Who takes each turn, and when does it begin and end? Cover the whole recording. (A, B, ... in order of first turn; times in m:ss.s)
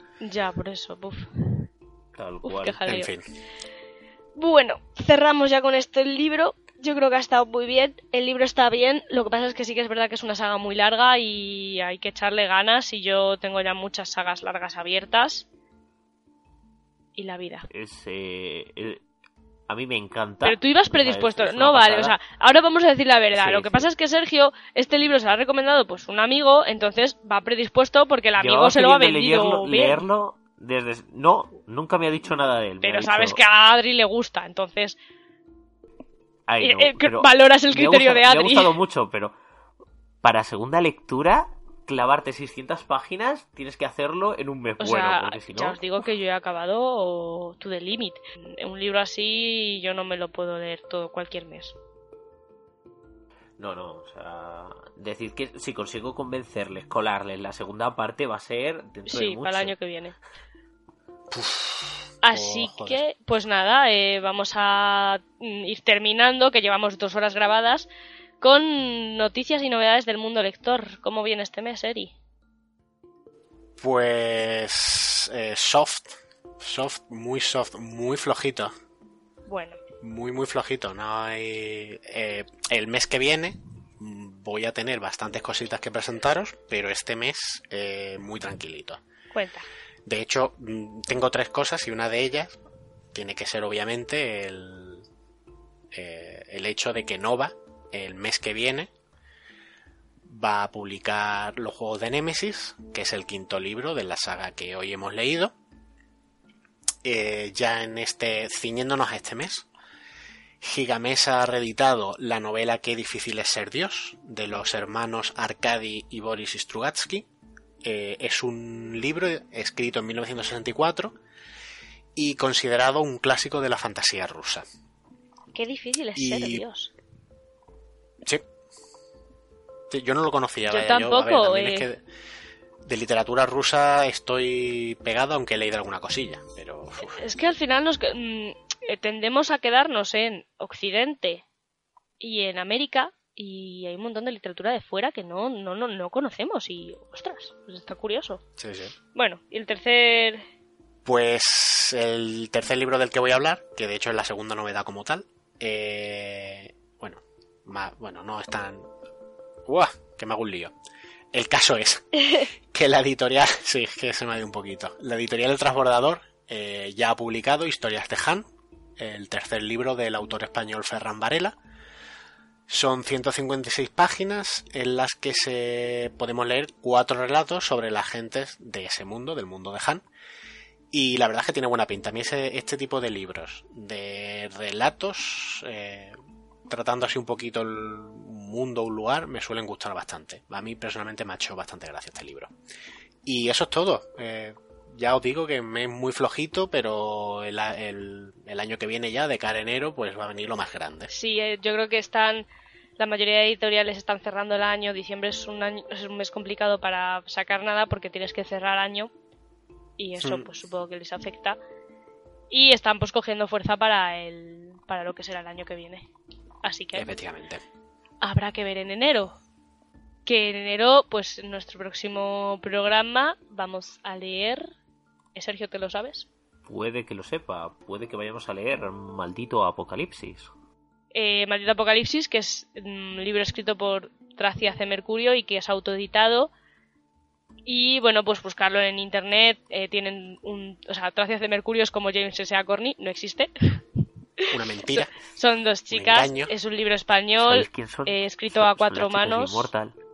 0:00.2-0:01.7 A
0:02.2-0:02.9 B
0:02.4-0:03.1 A
0:02.9-0:03.2 C
0:04.4-0:15.5 A
0:17.2-0:17.7 A
0:17.7-0:19.0 B
0:19.7-0:22.2 B
0:20.4-0:30.0 A
0:23.3-0:23.9 B
0:28.4-0:33.4 B
0:32.8-0:35.0 A
0:36.5-0:39.3 B
0:36.6-0:38.8 A
0:40.2-0:45.8 B
0:44.8-0:51.8 A
0:53.6-0:59.8 B
0:59.1-1:00.2 A
1:01.3-1:03.0 C
1:02.2-1:07.9 A
1:08.4-1:12.1 A
1:13.8-1:18.7 C
1:19.5-1:19.8 A
1:20.0-1:29.0 C
1:29.3-1:29.7 A
1:30.0-1:32.6 C
1:33.1-1:35.1 C
1:35.9-1:38.9 C
1:40.2-1:45.5 C
1:47.0-1:49.7 C
1:50.6-1:57.3 C
1:57.8-2:01.2 C
2:02.2-2:04.6 C
2:05.5-2:06.9 A
2:06.2-2:06.6 C
2:09.9-2:12.0 C
2:10.7-2:11.9 A
2:12.9-2:17.3 C
2:17.1-2:21.4 A
2:22.2-2:28.4 A
2:28.6-2:29.0 C
2:29.2-2:30.4 A
2:31.0-2:38.9 C
2:39.7-2:40.7 C
2:41.3-2:48.5 C
2:42.2-2:42.5 A
2:49.0-2:51.6 C
2:52.7-3:00.0 C
3:00.9-3:06.2 C
3:06.7-3:12.5 C
3:13.2-3:21.1 C
3:21.1-3:29.1 A
3:30.0-3:31.6 A
3:32.5-3:36.1 A
3:36.6-3:37.1 A
3:36.9-3:37.6 C
3:38.2-3:39.4 A
3:40.3-3:44.7 A
3:45.4-3:46.3 A
3:46.7-3:50.5 B
3:51.1-3:56.5 A
3:57.7-4:03.8 A
4:04.4-4:09.7 A
4:04.5-4:05.1 C
4:05.9-4:06.5 C
4:07.4-4:10.0 B